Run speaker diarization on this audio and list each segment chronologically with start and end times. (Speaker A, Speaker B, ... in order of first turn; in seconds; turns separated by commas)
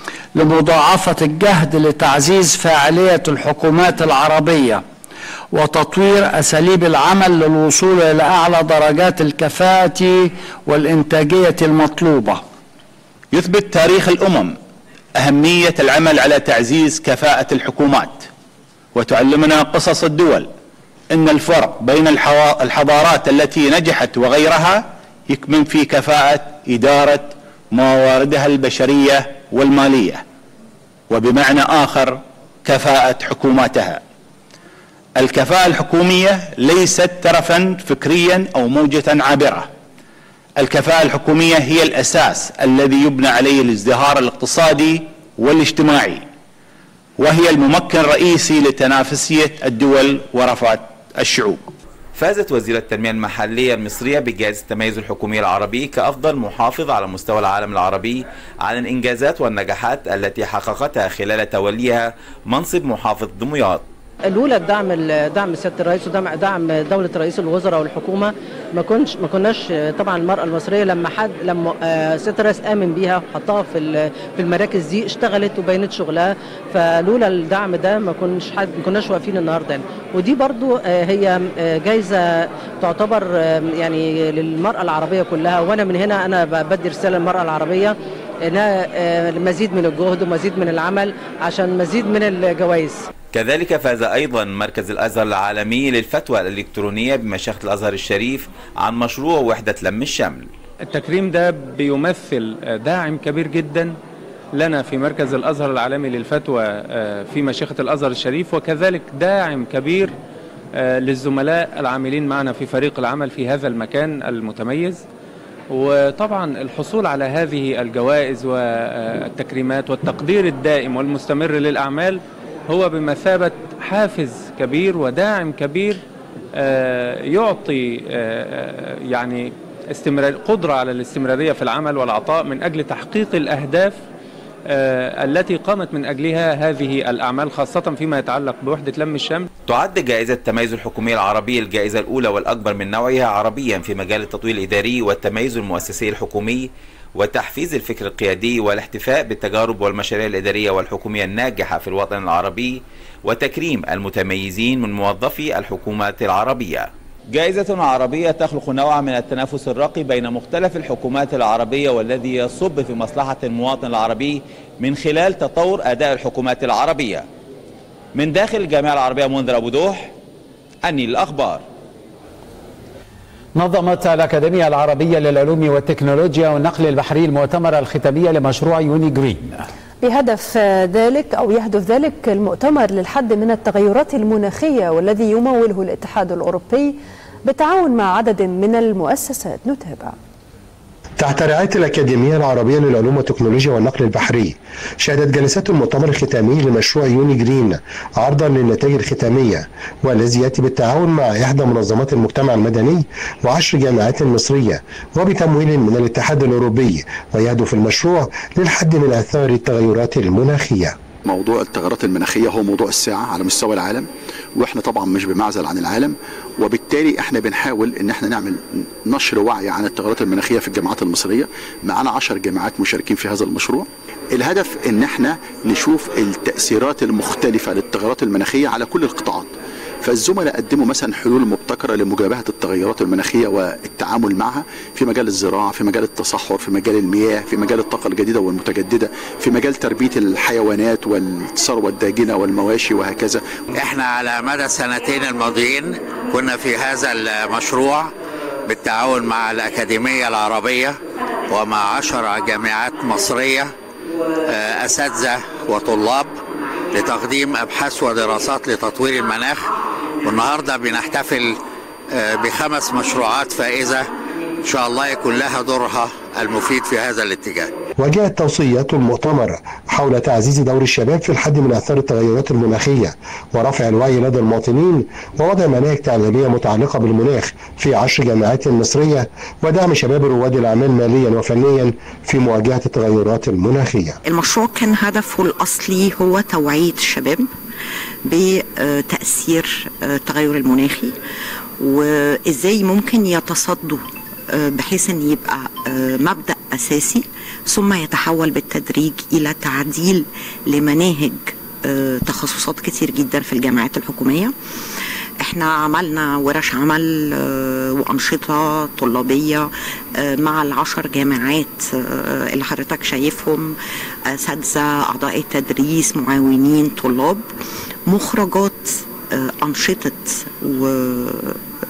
Speaker A: 0.3-4.8, Speaker A: 5.5-12.4, Speaker B: 13.3-14.6, Speaker B: 15.2-18.3, Speaker B: 18.9-20.5, Speaker B: 21.1-30.2, Speaker B: 31.1-34.0, Speaker B: 35.2-39.7, Speaker B: 40.6-46.3, Speaker B: 47.2-51.7, Speaker C: 52.1-63.8, Speaker D: 64.3-93.0, Speaker C: 93.3-100.5, Speaker E: 100.9-104.0, Speaker E: 104.5-110.1, Speaker E: 110.8-115.0, Speaker E: 115.7-126.0, Speaker E: 126.5-134.0, Speaker E: 134.7-139.5, Speaker C: 139.7-167.2, Speaker C: 168.1-170.1, Speaker C: 170.8-171.6, Speaker F: 173.6-179.6, Speaker G: 180.0-190.1, Speaker H: 191.2-210.9, Speaker I: 211.2-229.5, Speaker I: 230.0-243.4, Speaker J: 243.8-248.1, Speaker J: 248.7-253.7, Speaker J: 254.5-256.4, Speaker J: 256.9-261.6, Speaker J: 262.1-264.1, Speaker J: 264.6-267.7, Speaker H: 268.0-284.2, Speaker K: 284.2-287.5, Speaker K: 288.3-291.1, Speaker K: 291.8-304.5, Speaker K: 305.4-313.7, Speaker K: 314.3-317.4, Speaker K: 318.1-321.6